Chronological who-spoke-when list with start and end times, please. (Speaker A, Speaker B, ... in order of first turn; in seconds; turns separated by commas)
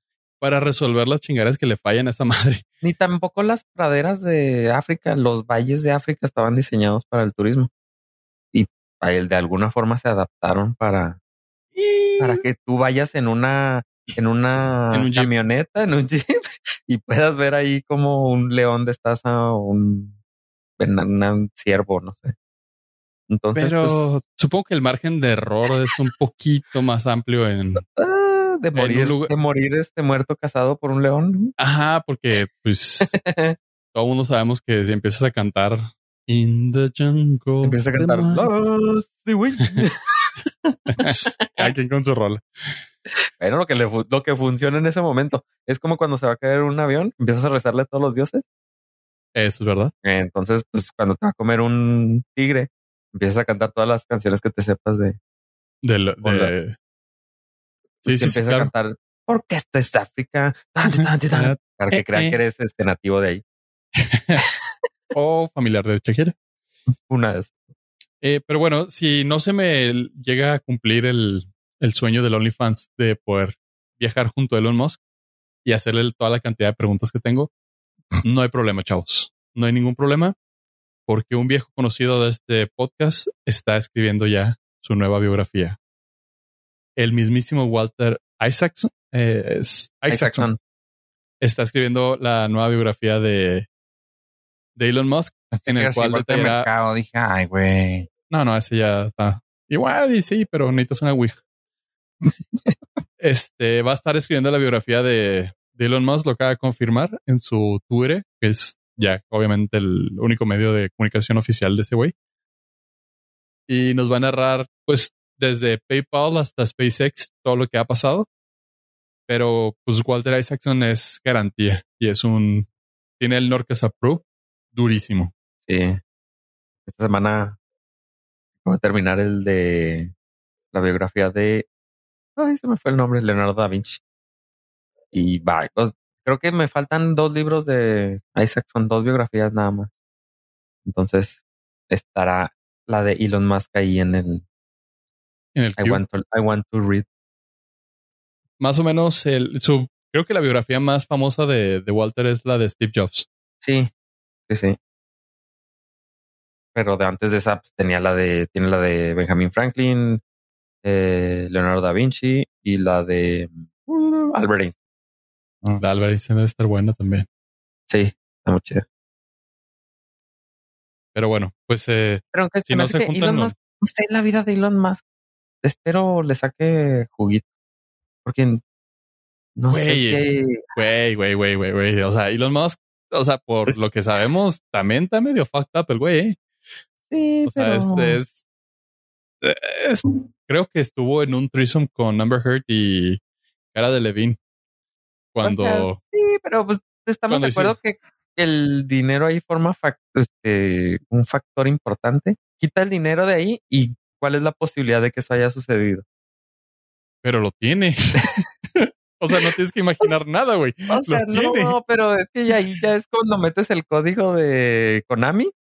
Speaker A: 0.4-2.6, Speaker B: 2.8-7.7, Speaker B: 8.5-11.2, Speaker A: 11.7-12.4, Speaker B: 12.2-16.3, Speaker A: 14.9-15.3, Speaker B: 16.9-20.1, Speaker B: 20.8-22.3, Speaker B: 23.3-24.1, Speaker A: 23.5-27.9, Speaker B: 27.9-31.5, Speaker A: 28.8-29.3, Speaker A: 31.6-33.1, Speaker B: 33.0-33.5, Speaker A: 33.9-38.5, Speaker B: 37.6-41.7, Speaker A: 41.0-42.8, Speaker B: 43.4-48.4, Speaker A: 49.3-49.9, Speaker B: 50.0-55.2, Speaker A: 55.8-56.8, Speaker B: 56.2-56.5, Speaker A: 58.0-58.7, Speaker B: 58.0-63.4, Speaker A: 60.9-62.4, Speaker A: 64.0-64.4, Speaker A: 65.1-66.3, Speaker B: 67.1-67.5, Speaker A: 68.2-75.0, Speaker A: 75.6-77.5, Speaker A: 78.2-80.3, Speaker A: 81.1-85.8, Speaker A: 87.0-90.5, Speaker B: 90.1-90.6, Speaker A: 91.4-93.7, Speaker A: 94.8-96.7, Speaker C: 95.7-98.1, Speaker A: 98.3-101.4, Speaker A: 103.2-112.1, Speaker A: 113.7-118.3, Speaker A: 119.3-122.7, Speaker A: 123.2-125.3, Speaker B: 125.7-126.0, Speaker B: 126.9-127.6, Speaker B: 128.6-130.1, Speaker B: 130.7-131.7, Speaker B: 132.4-134.0, Speaker B: 135.1-139.9, Speaker B: 140.8-141.4, Speaker B: 141.9-144.4, Speaker A: 145.5-146.0, Speaker B: 145.8-147.1, Speaker A: 148.6-153.2, Speaker B: 153.6-153.9, Speaker B: 154.5-154.8, Speaker B: 156.7-160.2, Speaker B: 160.8-164.8, Speaker A: 165.8-167.3, Speaker B: 167.9-168.8, Speaker A: 171.1-173.5, Speaker B: 172.3-175.0, Speaker B: 175.6-177.4, Speaker B: 178.2-178.6, Speaker B: 179.6-180.7, Speaker A: 179.7-180.2, Speaker A: 180.8-186.4, Speaker B: 187.1-188.2, Speaker A: 187.4-188.4, Speaker A: 189.4-193.2, Speaker A: 193.7-194.4, Speaker A: 195.3-196.0, Speaker B: 195.4-206.0, Speaker A: 197.3-197.8, Speaker A: 207.2-211.8, Speaker B: 209.3-210.1, Speaker B: 210.9-215.5